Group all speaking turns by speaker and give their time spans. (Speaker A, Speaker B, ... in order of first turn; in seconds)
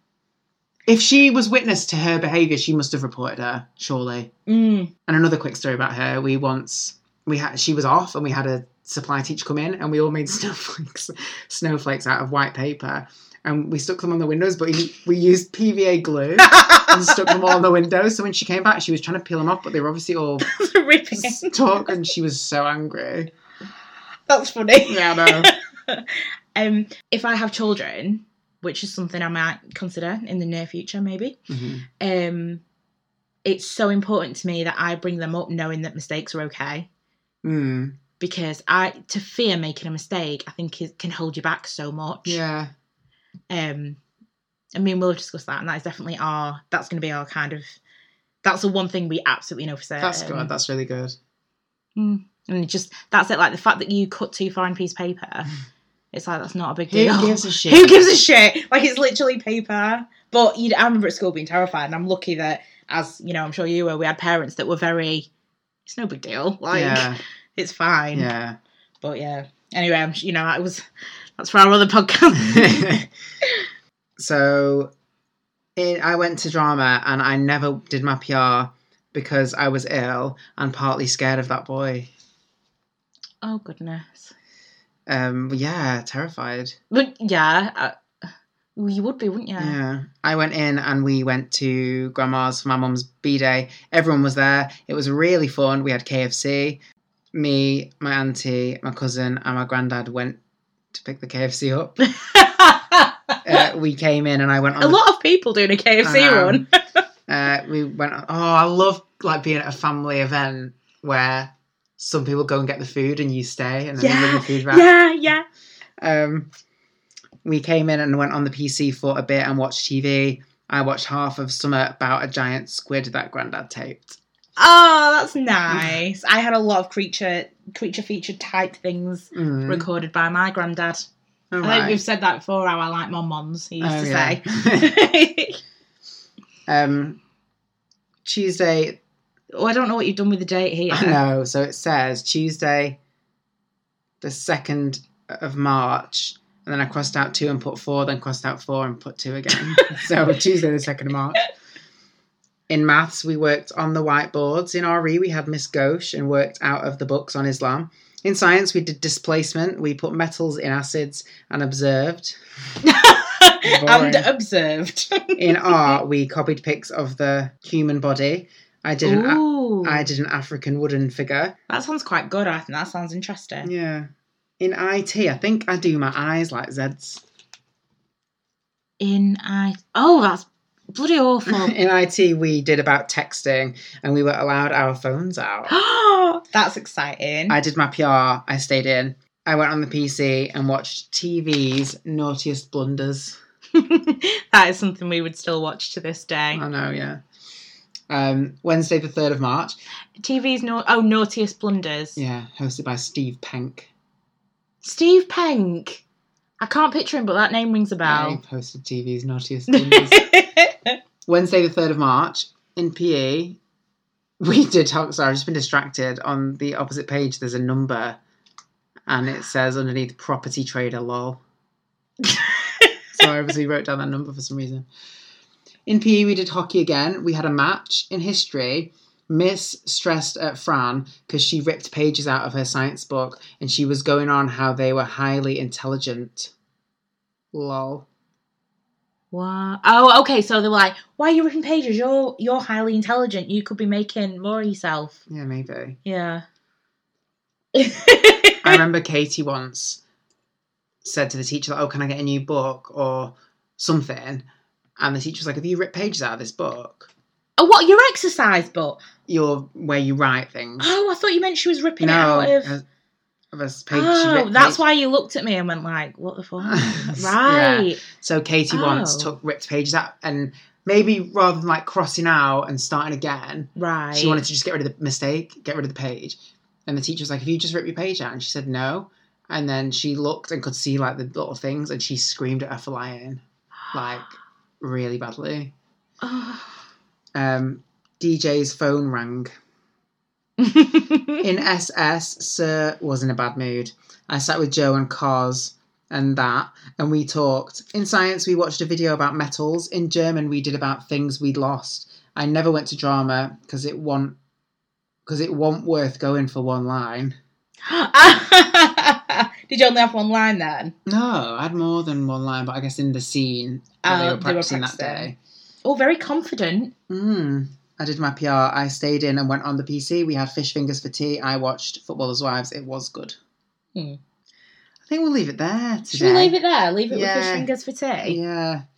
Speaker A: 0.8-4.3, 5.1-20.5, 21.1-23.3, 24.9-25.5, 31.5-31.8, 37.4-38.0, 42.2-42.7, 50.0-51.1, 56.9-58.0, 66.7-67.2, 68.1-68.6, 72.4-73.1, 74.2-74.9, 75.8-82.1, 85.1-86.8, 89.6-96.8, 97.3-100.4, 100.9-102.1, 103.4-105.0, 106.0-106.7, 107.3-114.9, 116.0-116.5, 117.4-124.2, 125.7-126.0, 129.3-129.8, 131.5-132.0, 133.8-134.9, 136.7-137.2, 138.2-139.0, 140.9-143.0, 144.2-151.4, 152.7-162.4, 163.6-164.3, 165.3-171.6, 173.6-174.1, 174.6-177.2, 181.5-185.7, 187.5-193.4, 196.5-197.2, 198.1-199.7, 202.2-203.9, 208.0-210.3, 211.2-213.6, 214.4-218.2, 219.1-221.4, 223.1-224.9, 225.9-236.5, 237.5-238.1, 245.3-246.0, 248.6-250.0, 251.0-254.4, 255.0-257.1, 259.3-260.9, 262.0-262.8, 263.5-264.8, 266.6-285.7, 287.3-289.5, 291.4-304.4, 305.2-307.4, 311.1-315.4, 317.1-323.4, 325.1-326.6, 327.1-327.7, 328.2-328.8
Speaker B: 4.5-4.9, 16.4-17.5, 20.4-21.8, 24.3-31.4, 32.0-32.6, 33.4-36.9, 38.2-42.4, 43.5-44.0, 44.7-47.8, 48.4-50.5, 52.0-55.5, 56.1-65.3, 65.8-68.3, 69.0-70.8, 71.4-72.9, 83.4-84.3, 86.9-89.8, 102.1-103.6, 104.8-107.0, 114.0-115.4, 124.6-131.0, 131.6-135.6, 139.5-141.2, 149.5-150.0, 162.8-165.9, 169.0-170.1, 171.7-173.7, 179.0-181.8, 185.7-187.6, 193.7-196.6, 200.2-202.2, 204.8-206.0, 206.6-208.4, 209.7-211.0, 239.3-245.2, 246.0-246.4, 247.7-248.8, 257.6-259.0, 260.8-262.8, 263.9-268.0, 268.7-269.3, 273.8-274.4, 286.2-286.8, 290.6-291.4, 307.8-310.9, 314.0-315.3, 315.8-316.9, 326.1-328.4